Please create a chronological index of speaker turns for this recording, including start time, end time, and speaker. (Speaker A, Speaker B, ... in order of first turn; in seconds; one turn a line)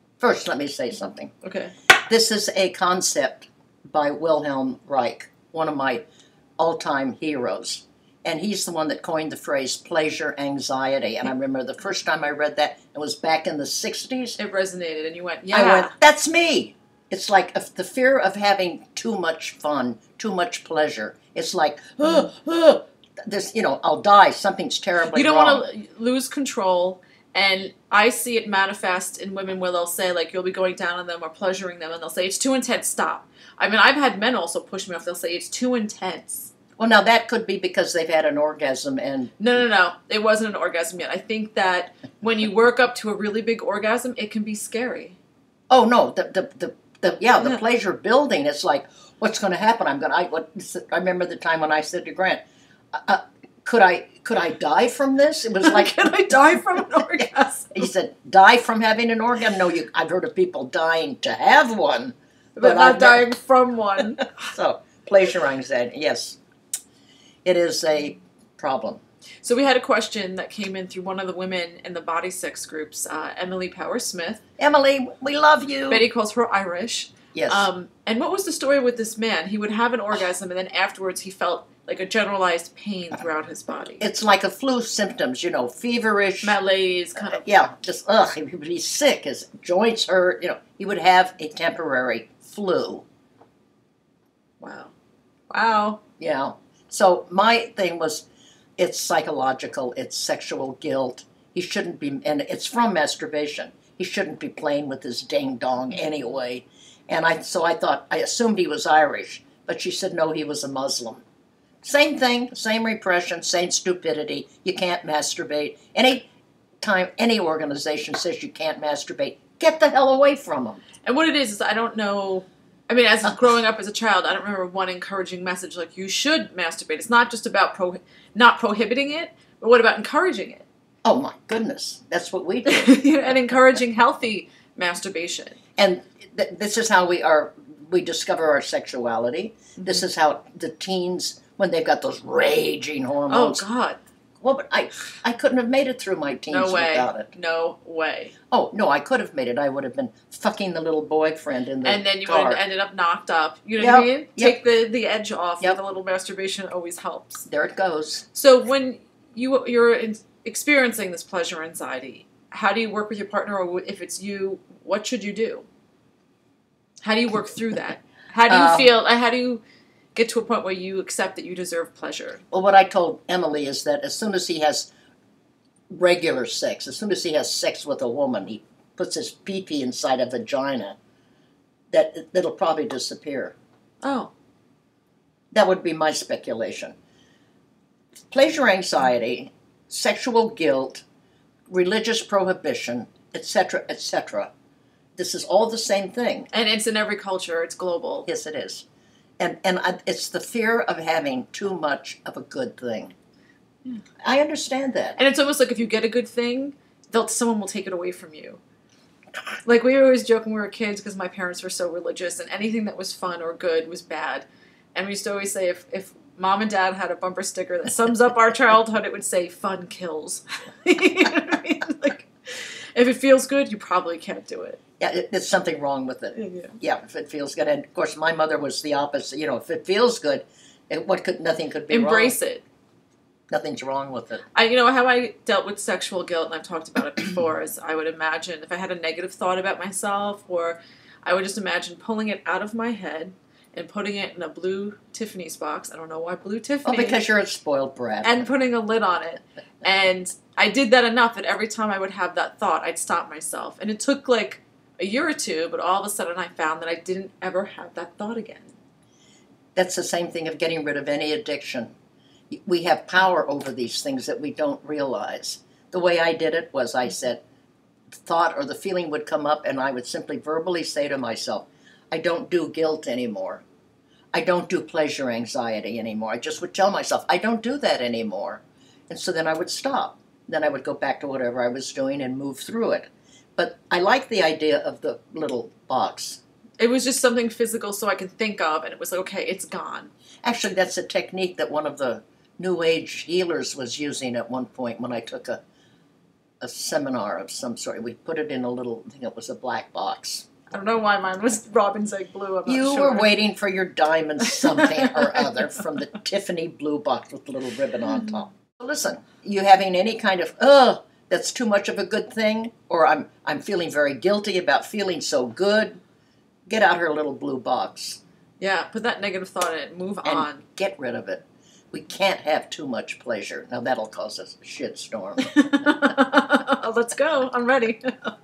Speaker A: 0.2-1.3
Speaker B: 1.4-1.7
Speaker A: 2.0-6.0
Speaker A: 6.6-14.4
Speaker B: 14.4-15.9
Speaker A: 15.5-25.6
Speaker B: 25.1-36.5
Speaker A: 36.8-39.4
Speaker B: 39.4-45.2
Speaker A: 45.7-52.4
Speaker A: 52.9-56.1
Speaker B: 55.6-57.8
Speaker A: 57.7-63.3
Speaker B: 62.5-64.3
Speaker A: 64.2-66.4
Speaker A: 67.4-69.0
Speaker B: 69.4-74.4
Speaker A: 74.6-76.0
Speaker B: 75.9-84.0
Speaker A: 77.3-77.7
Speaker A: 84.0-86.5
Speaker B: 86.4-87.4
Speaker A: 87.3-93.0
Speaker B: 94.6-94.9
Speaker B: 95.5-96.0
Speaker A: 96.2-98.2
Speaker A: 98.8-111.2
Speaker A: 111.8-116.3
Speaker A: 116.8-120.8
Speaker B: 121.0-130.7
Speaker A: 131.0-133.0
Speaker B: 132.7-135.6
Speaker A: 135.8-143.6
Speaker B: 143.3-144.0
Speaker A: 144.4-147.3
Speaker B: 146.5-148.3
Speaker A: 148.5-152.6
Speaker B: 151.8-157.4
Speaker A: 153.8-154.6
Speaker A: 157.4-158.2
Speaker B: 158.3-165.6
Speaker B: 167.0-169.6
Speaker A: 168.5-168.9
Speaker B: 170.1-172.4
Speaker A: 172.5-174.9
Speaker A: 175.9-180.9
Speaker A: 181.9-183.5
Speaker B: 184.0-184.3
Speaker A: 185.5-186.9
Speaker A: 188.3-191.0
Speaker A: 191.7-194.5
Speaker A: 195.2-196.5
Speaker B: 196.5-198.3
Speaker A: 198.2-198.8
Speaker A: 199.4-203.1
Speaker A: 204.2-205.2
Speaker B: 205.2-208.6
Speaker B: 209.6-224.8
Speaker A: 225.0-232.3
Speaker B: 226.3-226.7
Speaker B: 231.9-232.6
Speaker A: 233.5-234.4
Speaker B: 234.5-247.2
Speaker A: 246.8-248.5
Speaker B: 248.2-258.7
Speaker A: 259.7-261.9
Speaker A: 262.5-267.4
Speaker A: 268.2-273.6
Speaker A: 274.3-286.4
Speaker B: 286.8-290.1
Speaker A: 290.4-295.6
Speaker A: 296.6-300.5
Speaker B: 300.7-303.3
Speaker A: 302.6-316.0
Speaker B: 304.5-305.5
Speaker A: 316.7-318.2
Speaker B: 318.6-320.6
Speaker A: 320.2-326.1
Speaker B: 325.5-328.3